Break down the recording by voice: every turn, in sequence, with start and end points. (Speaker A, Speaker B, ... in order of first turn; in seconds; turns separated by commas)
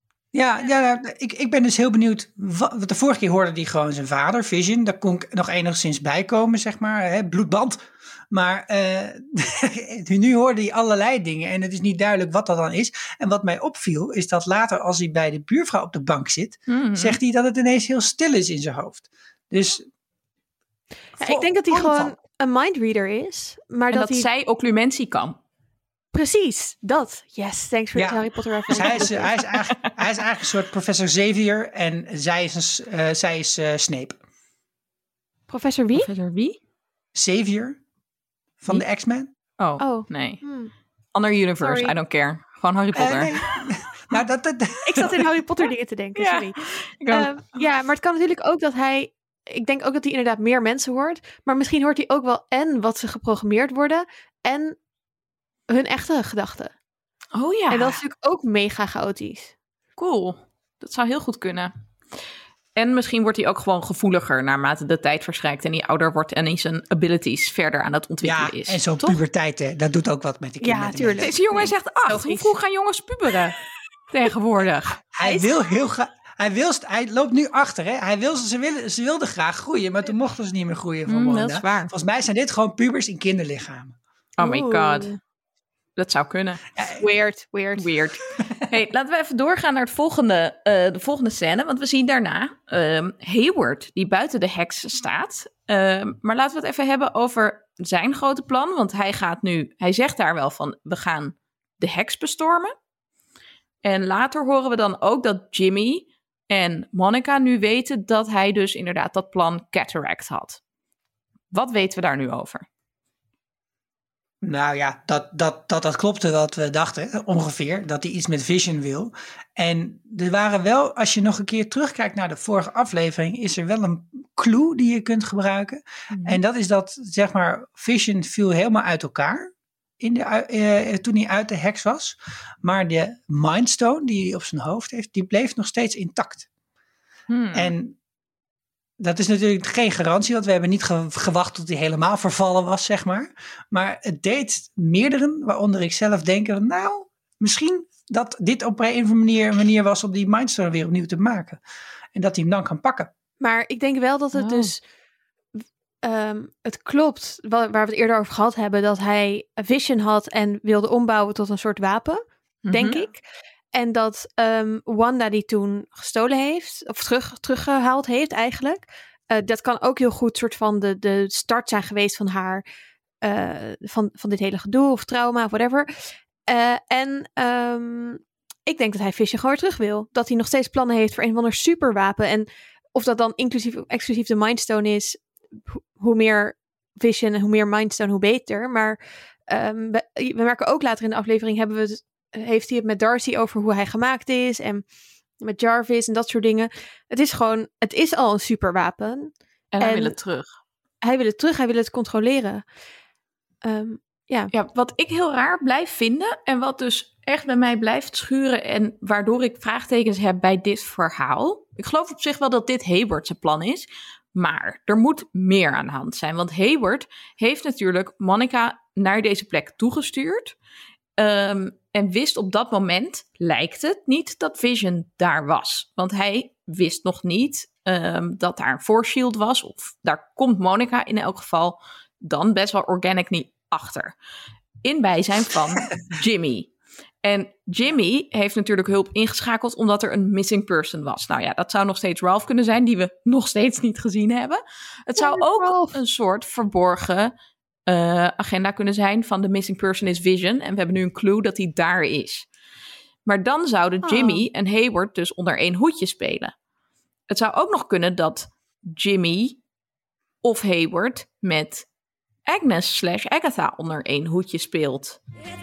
Speaker A: 0.3-19.9, Speaker B: 16.7-17.2, Speaker A: 21.2-22.1, Speaker C: 21.2-24.3, Speaker B: 23.9-25.4, Speaker C: 26.1-29.4, Speaker A: 27.9-34.2, Speaker B: 28.7-29.9, Speaker C: 35.5-36.1, Speaker B: 36.0-36.6, Speaker A: 37.1-37.8, Speaker A: 38.6-39.3, Speaker B: 39.6-40.4, Speaker C: 39.8-40.7, Speaker B: 41.1-43.7, Speaker C: 41.6-42.0, Speaker A: 43.0-45.3, Speaker C: 44.9-54.8, Speaker B: 46.2-47.3, Speaker C: 55.7-56.7, Speaker B: 57.4-58.0, Speaker C: 57.7-59.5, Speaker B: 60.0-61.7, Speaker B: 62.8-69.2, Speaker A: 68.2-71.3, Speaker C: 70.6-72.5, Speaker B: 71.2-73.6, Speaker B: 74.1-75.0, Speaker A: 75.0-84.0, Speaker C: 75.2-75.6, Speaker B: 81.1-81.9, Speaker B: 84.4-85.1, Speaker C: 84.4-85.2, Speaker B: 86.0-86.6, Speaker A: 86.8-87.0, Speaker C: 87.0-87.9, Speaker B: 87.8-102.7, Speaker B: 103.8-110.6, Speaker B: 111.5-112.7, Speaker A: 114.4-136.5, Speaker B: 126.1-126.4, Speaker B: 137.3-137.7, Speaker A: 137.5-138.0, Speaker A: 139.0-151.6, Speaker A: 152.2-153.1, Speaker C: 153.4-154.8, Speaker B: 154.3-154.7, Speaker C: 156.0-163.2, Speaker B: 162.7-163.1, Speaker C: 163.7-172.6, Speaker C: 173.2-175.9, Speaker C: 176.5-194.8, Speaker C: 195.4-200.2, Speaker B: 199.7-200.5, Speaker C: 201.0-202.6, Speaker C: 203.6-204.5, Speaker B: 204.5-220.6, Speaker B: 221.2-234.2, Speaker B: 234.8-236.7, Speaker B: 237.2-247.3, Speaker C: 245.2-246.0, Speaker B: 247.9-252.5, Speaker B: 253.3-256.5, Speaker C: 254.0-254.4, Speaker B: 257.3-259.6, Speaker B: 260.4-261.9, Speaker B: 262.5-265.2